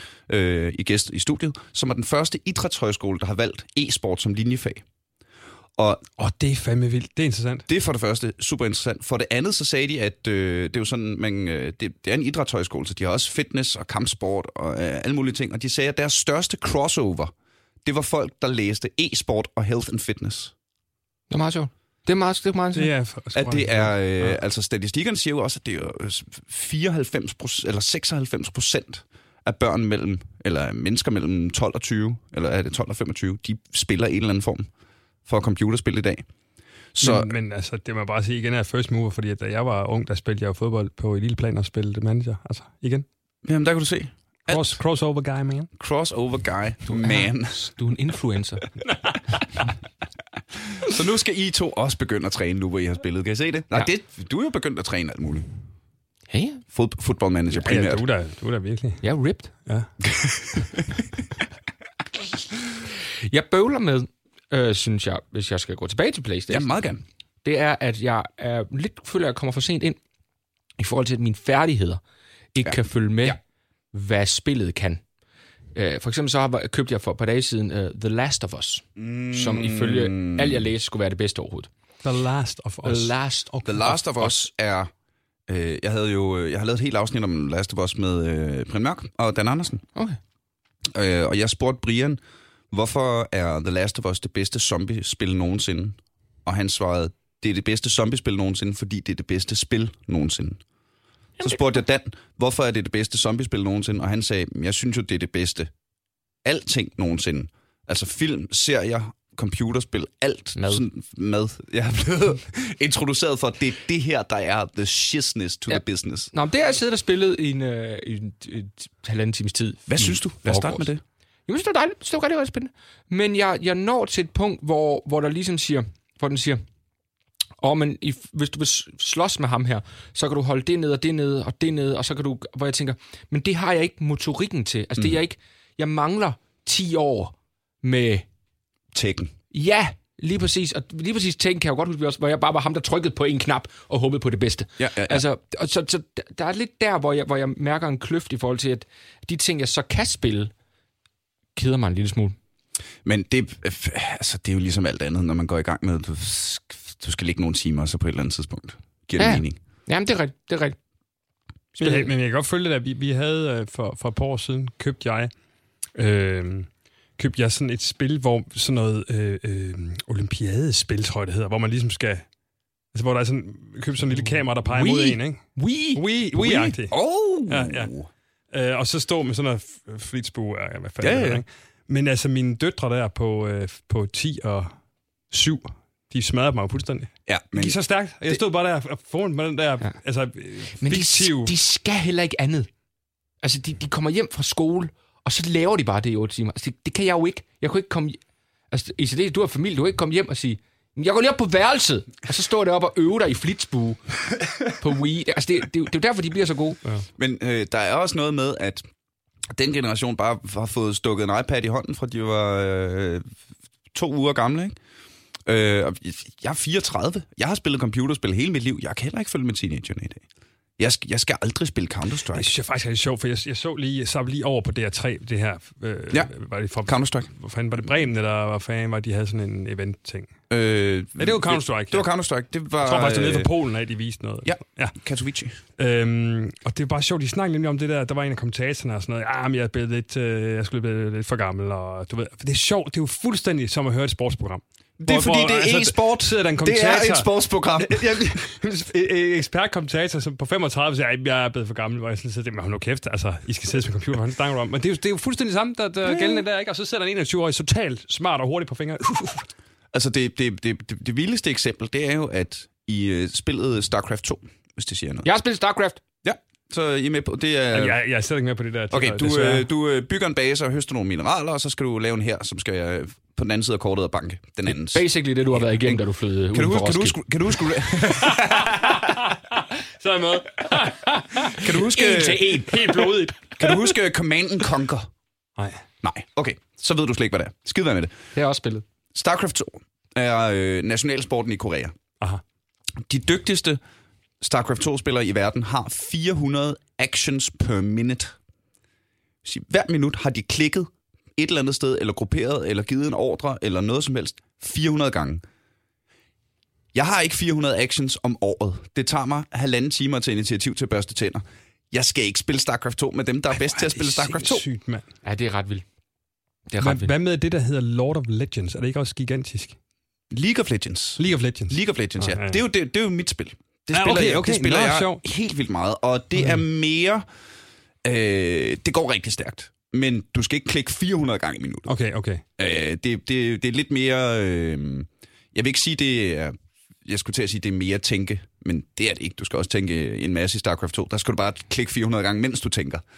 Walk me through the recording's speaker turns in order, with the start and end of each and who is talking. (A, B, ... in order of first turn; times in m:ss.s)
0:00.3-0:04.8 A
0:05.8-0:06.0 A
0:06.2-0:07.7 B
0:07.7-0:17.3 A
0:17.8-0:20.5 A
0:21.3-0:22.9 C
0:22.7-0:24.4 B
0:23.3-0:34.7 A
0:35.3-0:36.3 A
0:36.9-0:37.3 A
0:37.0-0:43.0 B
0:43.4-0:44.8 A
0:44.5-0:45.7 B
0:45.8-0:47.6 A
0:46.9-0:48.7 C
0:48.9-0:49.2 B
0:50.7-0:55.5 A
0:56.3-0:56.6 C
0:56.7-0:58.0 A
0:57.5-0:59.0 B
0:59.0-0:59.5 C
1:00.0-1:00.8 A
1:03.3-1:06.7 C
1:06.5-1:07.0 A
1:07.4-1:10.0 C
1:10.8-1:12.0 C
1:12.6-1:13.4 C
1:12.6-1:13.4 A
1:13.9-1:15.0 C
1:15.8-1:21.7 C
1:19.0-1:20.6 A
1:22.0-1:23.8 B
1:22.8-1:24.5 C
1:23.6-1:24.9 A
1:25.5-1:29.8 A
1:30.9-1:32.2 A
1:32.7-1:40.6 A
1:41.4-1:45.7 A
1:46.4-1:56.3 A
1:50.6-1:50.8 C
1:55.7-2:00.9 C
1:59.9-2:01.0 A
2:01.5-2:06.6 C
2:07.6-2:18.3 C
2:18.9-2:19.3 A
2:19.5-2:30.5 C
2:24.8-2:25.2 A
2:31.6-2:32.4 C
2:33.0-2:39.6 A
2:39.2-2:40.8 C
2:41.8-2:45.3 B
2:41.8-2:42.1 C
2:45.9-2:52.3 B
2:52.9-2:57.9 B
2:54.3-2:56.0 C
2:56.3-2:58.1 A
2:58.5-3:04.8 B
3:01.0-3:01.4 A
3:05.3-3:11.6 B
3:07.3-3:07.8 A
3:10.7-3:12.7 C
3:13.4-3:18.2 C
3:18.7-3:24.0 C
3:24.8-3:26.8 C
3:27.2-3:28.8 A
3:29.5-3:33.2 A
3:33.9-3:34.8 A
3:35.5-3:40.2 A
3:40.8-3:42.5 A
3:42.3-3:50.3 B
3:46.8-3:47.3 A
3:50.5-3:53.5 A
3:51.2-3:52.1 B
3:52.8-3:55.0 B
3:54.4-3:55.6 A
3:55.8-4:19.5 B
4:05.0-4:08.4 A
4:16.0-4:16.4 A
4:19.9-4:25.3 A
4:25.2-4:26.0 C
4:26.2-4:28.0 A
4:27.7-4:29.7 B
4:28.9-4:36.0 A
4:34.7-4:37.2 C
4:36.5-4:39.1 A
4:38.0-4:41.8 B
4:41.6-4:42.6 A
4:41.7-4:43.2 C
4:42.7-4:43.9 B
4:43.6-4:45.1 A
4:45.6-4:45.8 B
4:46.0-4:48.1 A
4:48.4-4:48.8 C
4:49.1-4:51.9 A
4:53.0-4:53.8 A
4:54.4-4:58.4 A
4:59.4-5:05.4 A
5:06.9-5:14.6 A
5:13.6-5:15.0 B
5:15.2-5:15.8 C
5:16.7-5:17.1 C
5:16.8-5:19.8 B
5:20.3-5:27.2 A
5:21.2-5:22.6 B
5:23.9-5:25.2 B
5:26.4-5:26.6 B
5:28.0-5:32.0 A
5:31.9-5:32.4 B
5:32.6-5:43.0 A